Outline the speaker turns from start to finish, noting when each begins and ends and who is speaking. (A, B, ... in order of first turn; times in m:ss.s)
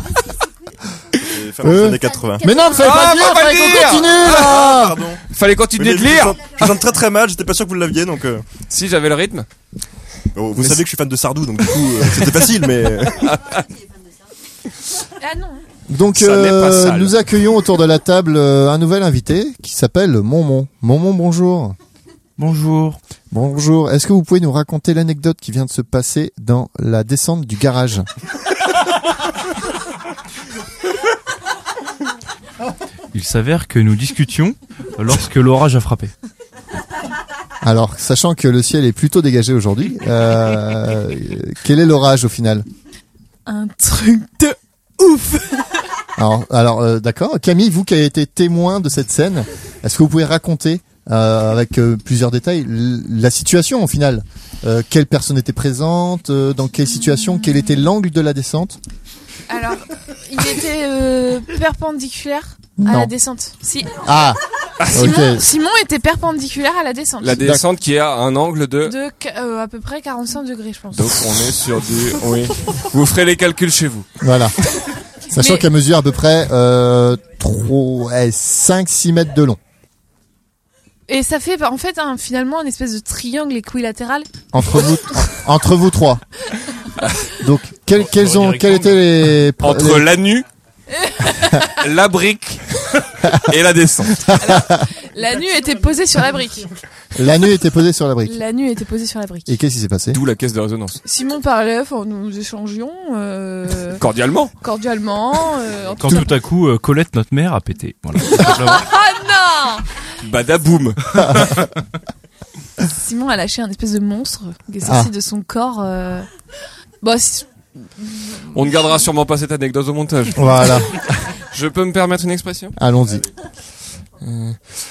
0:01.3-0:02.5 A
0:01.6-0:05.0 B
0:02.8-0:06.7 C
0:04.2-0:05.2 A
0:05.7-0:08.4 A
0:08.7-0:09.5 C
0:10.4-0:13.4 A
0:10.6-0:10.8 C
0:13.2-0:13.6 C
0:15.2-0:15.6 D
0:15.9-0:21.8 B
0:16.1-0:17.1 C
0:22.4-0:23.0 E
0:23.3-0:28.1 B
0:33.1-0:36.1 E
0:37.6-0:42.7 B
0:43.5-0:45.8 D
0:46.2-0:58.8 B
0:59.5-1:04.0 D
1:02.8-1:03.1 B
1:04.0-1:04.4 B
1:04.9-1:07.5 D
1:04.9-1:05.5 B
1:07.2-1:09.0 C
1:07.4-1:07.6 B
1:08.8-1:11.2 D
1:10.9-1:14.1 C
1:14.2-1:14.6 B
1:15.3-1:19.6 B
1:15.4-1:15.7 D
1:21.1-1:24.3 D
1:24.5-1:26.2 B
1:27.4-1:30.1 B
1:28.1-1:28.8 E
1:29.6-1:30.4 C
1:31.0-1:31.6 D
1:31.6-1:32.6 C
1:33.4-1:34.3 C
1:34.2-1:34.8 B
1:34.4-1:36.7 D
1:37.2-1:38.4 B
1:38.2-1:39.6 D
1:39.5-1:40.2 B
1:40.1-1:41.0 C
1:41.0-1:44.0 D
1:44.0-1:44.5 C
1:44.6-1:46.4 D
1:46.0-1:48.9 E
1:48.3-1:49.9 D
1:50.2-1:51.7 C
1:52.8-1:56.3 D
1:54.8-1:55.1 B
1:57.0-1:59.0 D
1:58.5-2:01.0 C
2:00.3-2:01.2 B
2:01.5-2:02.7 C
2:02.8-2:03.3 B
2:04.2-2:04.6 C